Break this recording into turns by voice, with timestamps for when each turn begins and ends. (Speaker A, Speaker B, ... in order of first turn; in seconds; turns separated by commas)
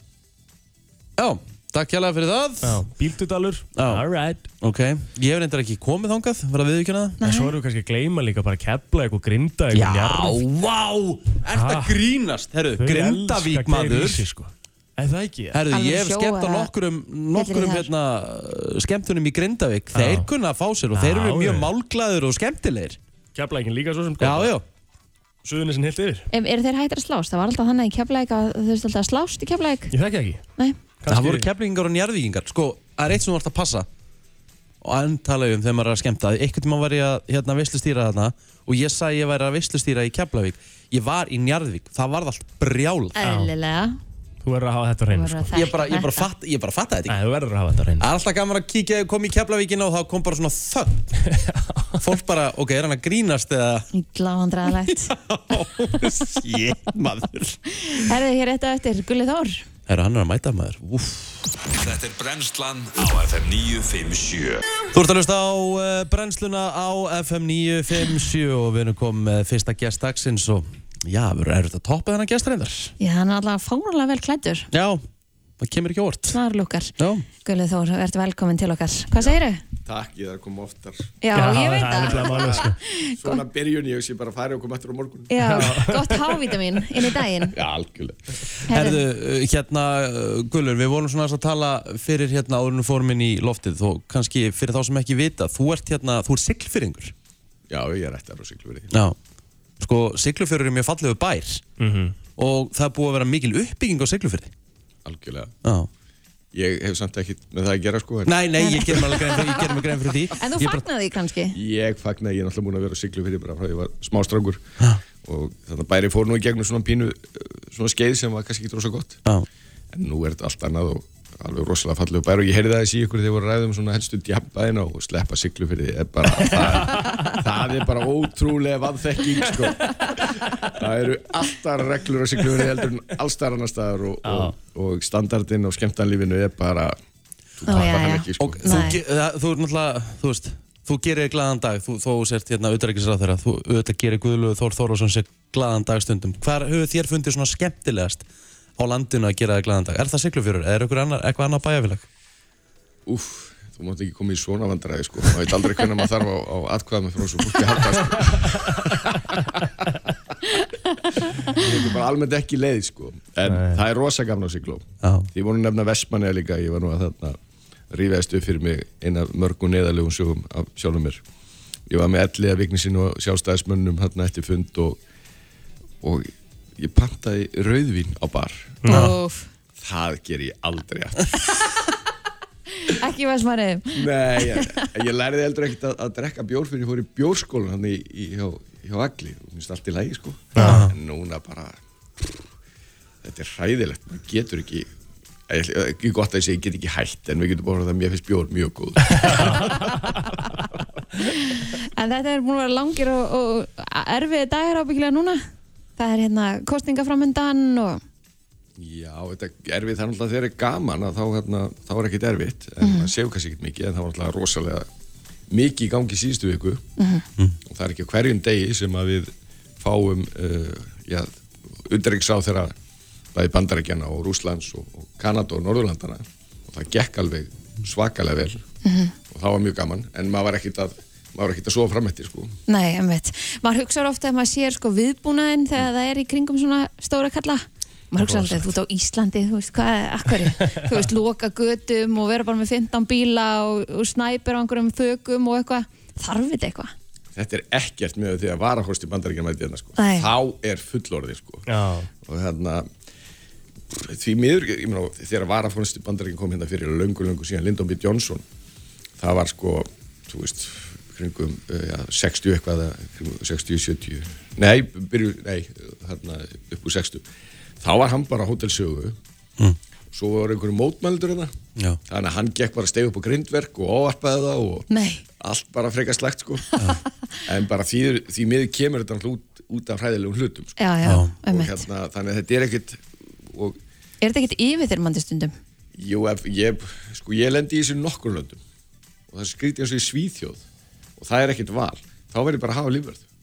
Speaker A: 1.2-2.8, Speaker B: 2.6-4.4, Speaker A: 3.8-4.0, Speaker A: 4.6-7.2, Speaker C: 7.2-7.5, Speaker B: 7.2-10.4, Speaker A: 9.7-14.2, Speaker B: 11.5-12.0, Speaker B: 12.8-15.6, Speaker A: 15.5-23.0, Speaker C: 15.7-16.7, Speaker C: 17.3-17.9, Speaker B: 19.9-20.3, Speaker B: 20.9-21.7, Speaker B: 23.4-24.6, Speaker A: 24.2-24.6, Speaker B: 25.4-26.3, Speaker C: 26.3-29.9, Speaker B: 29.9-30.4, Speaker B: 31.0-31.5, Speaker A: 31.1-33.9, Speaker A: 34.8-43.2, Speaker C: 43.2-44.0, Speaker B: 43.2-43.5, Speaker B: 44.4-45.5, Speaker C: 45.1-46.3, Speaker A: 45.5-47.2, Speaker B: 47.1-48.1, Speaker A: 48.0-51.1, Speaker B: 51.3-52.0, Speaker A: 52.0-53.9, Speaker C: 53.9-55.1, Speaker A: 54.8-57.6, Speaker C: 57.7-59.6, Speaker A: 59.9-61.6, Speaker D: 61.7-64.6, Speaker A: 64.9-72.9, Speaker C: 73.0-74.7, Speaker A: 74.7-75.0, Speaker A: 75.6-76.4, Speaker C: 76.3-76.9, Speaker A: 77.0-77.2, Speaker C: 77.4-79.6, Speaker E: 79.2-81.1, Speaker C: 81.2-83.4, Speaker B: 81.3-82.8, Speaker E: 81.9-85.4, Speaker C: 85.3-87.6, Speaker B: 85.4-86.4, Speaker E: 87.5-88.4, Speaker A: 88.7-97.1, Speaker C: 88.7-89.0, Speaker E: 97.7-98.9, Speaker A: 98.9-99.2, Speaker A: 99.8-101.6, Speaker B: 101.8-102.2, Speaker A: 102.4-104.5, Speaker E: 105.0-105.5, Speaker A: 105.6-105.9, Speaker E: 106.5-108.4, Speaker A: 108.3-110.8, Speaker C: 108.6-109.8, Speaker C: 110.3-111.6, Speaker E: 111.5-114.6, Speaker E: 115.2-119.2, Speaker E: 119.9-136.9, Speaker B: 126.5-127.2, Speaker B: 134.2-134.5, Speaker E: 137.6-138.9, Speaker C: 137.7-139.0, Speaker A: 138.4-148.2, Speaker A: 148.8-152.1, Speaker E: 153.1-160.1, Speaker E: 161.1-167.4, Speaker B: 163.5-163.8, Speaker A: 165.0-165.3, Speaker E: 167.9-171.2, Speaker E: 171.9-175.0, Speaker E: 176.0-178.8, Speaker C: 178.9-179.5, Speaker A: 178.9-179.2, Speaker E: 179.8-181.6, Speaker C: 182.8-184.0, Speaker E: 183.9-192.4, Speaker B: 190.6-190.8, Speaker A: 190.6-190.9, Speaker E: 193.2-194.9, Speaker E: 195.5-200.6, Speaker B: 199.2-199.9, Speaker C: 201.2-205.4, Speaker C: 206.0-208.0, Speaker E: 208.8-214.9, Speaker C: 212.8-213.1, Speaker E: 215.5-216.8, Speaker C: 217.0-217.2, Speaker E: 217.7-221.3, Speaker E: 221.9-222.7, Speaker E: 223.3-228.6, Speaker C: 228.8-229.2, Speaker E: 229.3-232.6, Speaker C: 232.7-246.9, Speaker B: 238.2-238.6, Speaker E: 247.3-251.7, Speaker C: 250.0-250.3, Speaker B: 251.7-252.1, Speaker E: 252.2-252.9, Speaker E: 253.9-258.4, Speaker E: 259.2-267.2, Speaker E: 267.8-269.2, Speaker E: 270.1-271.5, Speaker E: 272.1-274.9, Speaker C: 274.9-275.2, Speaker E: 275.4-276.8, Speaker E: 277.4-280.8, Speaker C: 280.8-281.8, Speaker A: 281.1-281.3, Speaker E: 281.5-283.8, Speaker C: 284.2-285.5, Speaker E: 286.0-288.6, Speaker E: 289.3-290.6, Speaker E: 291.2-293.2